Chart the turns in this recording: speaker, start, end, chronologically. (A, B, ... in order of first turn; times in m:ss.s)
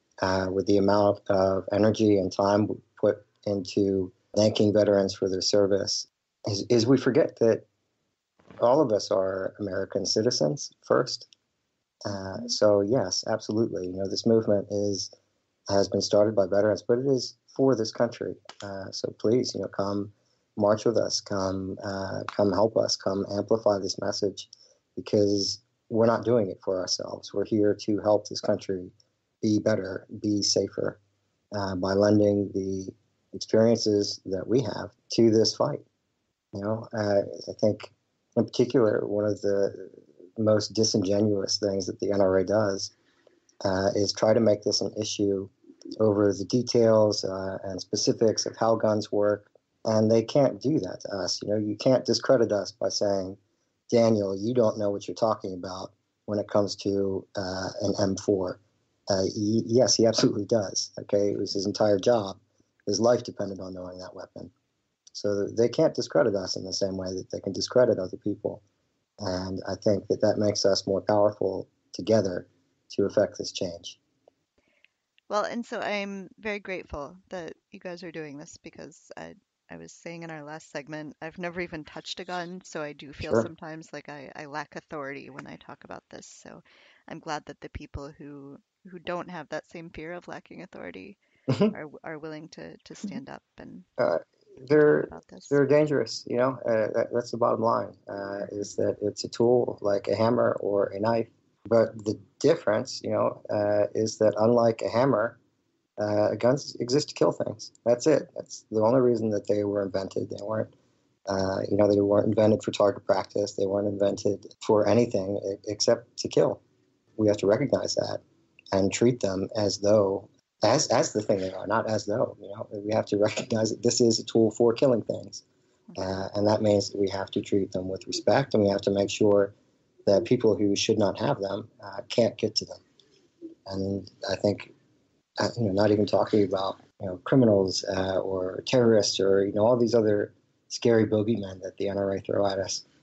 0:00.2-0:07.6 A
0:08.6-0:11.3 A
0:12.0-0:15.1 A
0:15.7-0:31.0 A
0:31.5-0:35.8 A
0:36.5-0:42.9 A
0:43.6-0:53.4 A
0:53.9-1:04.5 A
1:05.1-1:08.6 A
1:09.2-1:14.0 A
1:15.3-1:33.8 B
1:23.2-1:23.5 A
1:34.0-1:45.4 A
1:34.7-1:35.6 B
1:46.0-1:50.7 A
1:51.3-1:56.6 A
1:57.2-1:58.2 A
1:58.7-2:05.4 A
2:05.9-2:06.1 B
2:06.0-2:09.5 A
2:10.0-2:12.8 A
2:13.7-2:14.7 A
2:15.4-2:22.8 A